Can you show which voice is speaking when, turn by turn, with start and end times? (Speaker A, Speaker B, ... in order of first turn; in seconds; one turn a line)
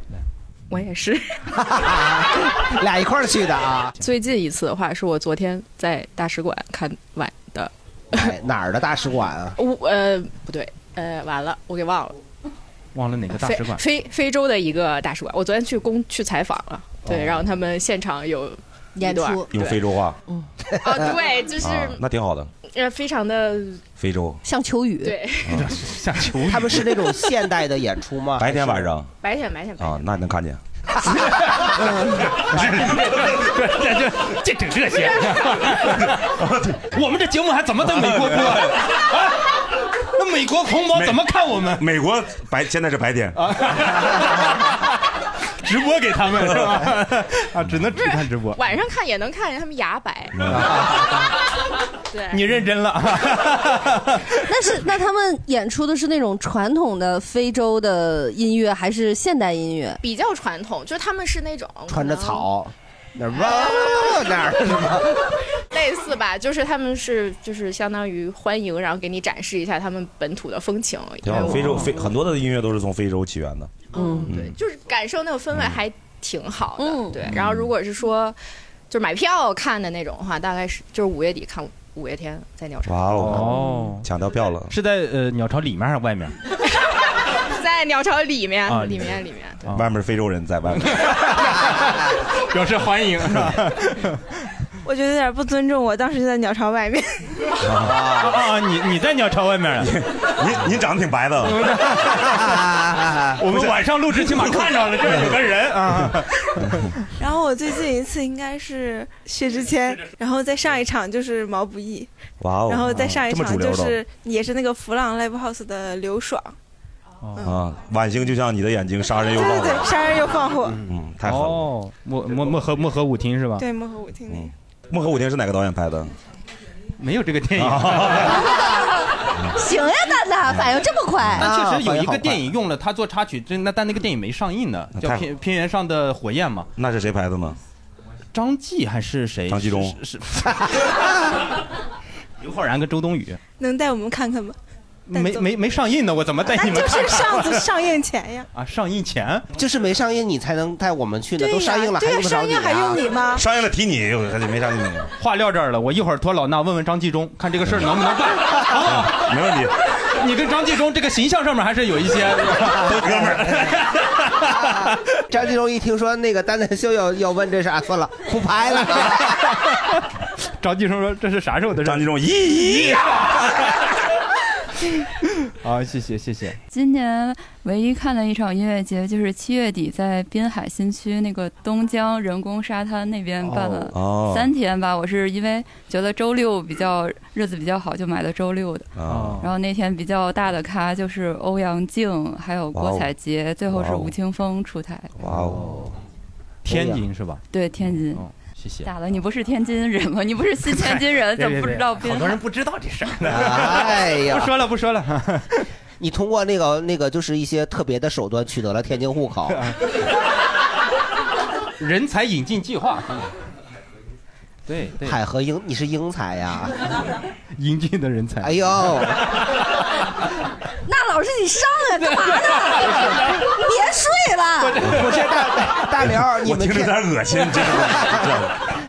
Speaker A: 0.7-1.5
Speaker B: 1.7-3.9
Speaker A: 4.0-8.3
Speaker B: 8.1-9.6
Speaker A: 9.6-12.2
Speaker C: 12.9-13.8
Speaker A: 13.4-19.8
Speaker B: 17.1-17.3
Speaker D: 18.9-19.5
Speaker E: 19.5-20.2
Speaker A: 20.8-22.0
Speaker E: 21.6-22.5
Speaker A: 22.7-23.8
Speaker E: 24.0-24.4
Speaker D: 24.4-25.3
Speaker A: 25.0-25.6
Speaker C: 25.5-27.0
Speaker B: 26.4-28.9
Speaker E: 28.4-29.1
Speaker A: 29.2-30.1
Speaker E: 29.8-30.6
Speaker B: 31.1-32.0
Speaker C: 31.3-36.3
Speaker E: 32.4-33.5
Speaker E: 36.0-36.9
Speaker C: 36.9-39.4
Speaker E: 37.8-38.9
Speaker C: 40.0-41.8
Speaker E: 40.9-43.4
Speaker C: 43.3-44.9
Speaker C: 45.5-48.6
Speaker A: 48.0-50.4
Speaker E: 50.4-50.8
Speaker A: 52.1-52.4
Speaker C: 52.3-54.3
Speaker D: 54.4-60.0
Speaker A: 60.0-62.5
Speaker B: 61.9-65.3
Speaker A: 63.4-64.2
Speaker A: 65.7-72.0
Speaker E: 71.2-74.5
Speaker A: 73.9-78.4
Speaker D: 73.9-74.3
Speaker D: 76.8-77.2
Speaker A: 78.9-83.0
Speaker E: 82.8-84.7
Speaker C: 83.1-84.1
Speaker C: 84.7-86.3
Speaker A: 87.5-89.7
Speaker C: 88.7-89.1
Speaker E: 89.7-91.1
Speaker C: 90.8-94.2
Speaker F: 94.8-97.3
Speaker E: 97.6-98.4
Speaker C: 97.9-99.9
Speaker E: 99.8-101.7
Speaker C: 101.4-102.7
Speaker B: 102.3-103.3
Speaker C: 103.3-106.9
Speaker E: 103.5-103.8
Speaker F: 107.2-112.1
Speaker E: 112.4-114.0
Speaker F: 112.7-116.5
Speaker C: 117.2-117.5
Speaker E: 117.4-119.9
Speaker F: 119.3-120.8
Speaker E: 120.8-121.7
Speaker C: 121.2-123.7
Speaker F: 123.6-124.5
Speaker E: 124.3-126.1
Speaker C: 127.0-128.5
Speaker E: 127.6-128.8
Speaker D: 128.5-128.9
Speaker D: 129.5-131.5
Speaker E: 130.4-131.4
Speaker C: 131.4-136.7
Speaker B: 131.4-132.5
Speaker E: 134.9-135.3
Speaker E: 136.8-137.6
Speaker C: 138.3-141.0
Speaker E: 139.5-140.0
Speaker C: 142.4-143.4
Speaker F: 143.6-144.6
Speaker C: 145.1-147.7
Speaker F: 145.1-145.5
Speaker F: 146.5-148.5
Speaker C: 148.5-149.4
Speaker B: 149.5-153.0
Speaker F: 151.4-153.4
Speaker E: 153.3-155.1
Speaker C: 155.2-159.3
Speaker E: 158.6-159.7
Speaker C: 160.1-164.9
Speaker E: 162.7-163.7
Speaker B: 165.3-169.4
Speaker C: 170.6-172.1
Speaker E: 171.8-173.5
Speaker C: 175.6-176.6
Speaker G: 176.7-195.1
Speaker E: 183.9-184.5
Speaker E: 188.9-189.4
Speaker C: 189.1-189.5
Speaker E: 192.7-193.1
Speaker E: 193.7-194.1
Speaker E: 195.2-195.7
Speaker B: 195.2-195.9
Speaker C: 196.6-198.9
Speaker B: 196.7-197.0
Speaker G: 197.5-198.3
Speaker G: 198.8-202.4
Speaker C: 200.6-205.6
Speaker B: 203.2-204.5
Speaker B: 206.0-209.7
Speaker C: 209.5-209.8
Speaker C: 211.8-213.3
Speaker C: 214.7-215.2
Speaker B: 215.0-216.8
Speaker C: 217.5-219.1
Speaker B: 218.4-219.3
Speaker D: 220.8-224.8
Speaker C: 222.5-223.5
Speaker C: 224.6-225.3
Speaker B: 224.8-227.1
Speaker E: 226.4-228.6
Speaker B: 227.6-228.3